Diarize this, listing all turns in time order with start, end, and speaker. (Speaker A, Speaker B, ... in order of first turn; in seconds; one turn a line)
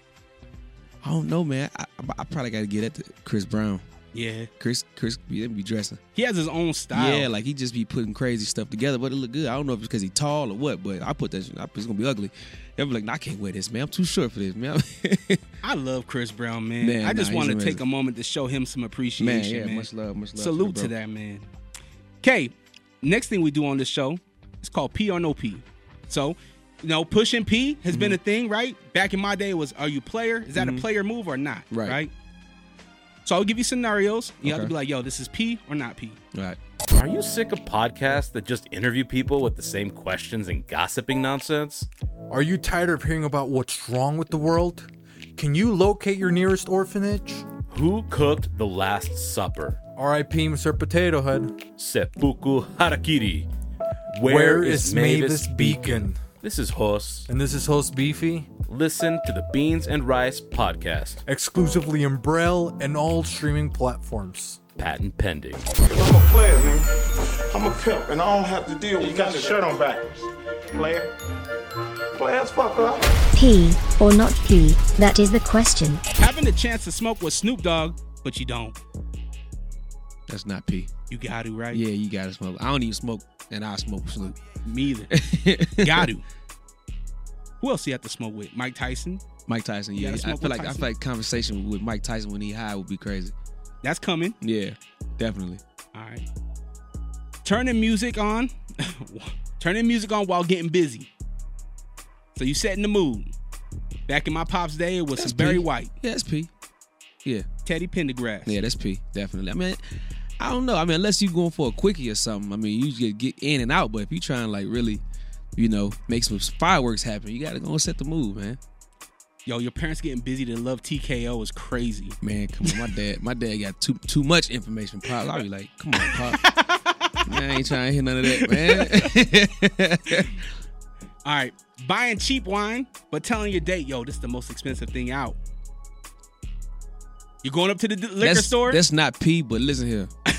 Speaker A: 1.0-3.9
Speaker B: 4.1-4.5
Speaker A: 4.6-6.0
Speaker B: 6.2-7.3
Speaker A: 6.9-15.4
Speaker B: 15.6-21.5
Speaker A: 16.8-17.8
Speaker A: 19.2-20.9
Speaker B: 22.2-32.1
Speaker A: 27.9-28.2
Speaker A: 30.6-30.9
Speaker A: 31.7-32.0
Speaker B: 33.2-36.2
Speaker A: 34.4-34.7
Speaker A: 36.3-36.6
Speaker C: 36.9-41.9
Speaker D: 42.3-47.5
Speaker C: 47.7-49.8
Speaker D: 50.0-51.6
Speaker C: 51.8-53.5
Speaker C: 54.1-57.3
Speaker D: 54.2-56.2
Speaker D: 57.3-58.5
Speaker C: 58.7-61.2
Speaker D: 61.3-64.6
Speaker C: 64.8-65.7
Speaker E: 65.9-66.9
Speaker E: 67.5-71.1
Speaker E: 72.2-73.1
Speaker F: 73.3-76.0
Speaker B: 76.2-78.8
Speaker A: 80.3-80.9
Speaker B: 81.1-81.8
Speaker A: 81.7-84.4
Speaker B: 84.6-85.1
Speaker A: 85.1-86.1
Speaker B: 85.8-86.2
Speaker B: 87.6-89.2
Speaker A: 89.5-93.3
Speaker B: 90.0-90.9
Speaker B: 93.8-94.4
Speaker A: 94.4-95.6
Speaker B: 95.9-96.3
Speaker B: 97.5-101.1
Speaker B: 102.4-103.3
Speaker B: 104.1-105.9
Speaker A: 105.2-106.5
Speaker B: 107.7-108.6
Speaker A: 108.5-109.8
Speaker A: 110.4-115.0
Speaker A: 115.6-118.6
Speaker B: 119.5-122.8
Speaker A: 122.2-126.4
Speaker B: 126.1-127.3
Speaker A: 127.2-130.4
Speaker B: 128.2-129.1
Speaker B: 131.2-135.4
Speaker B: 137.4-138.8
Speaker A: 138.2-140.1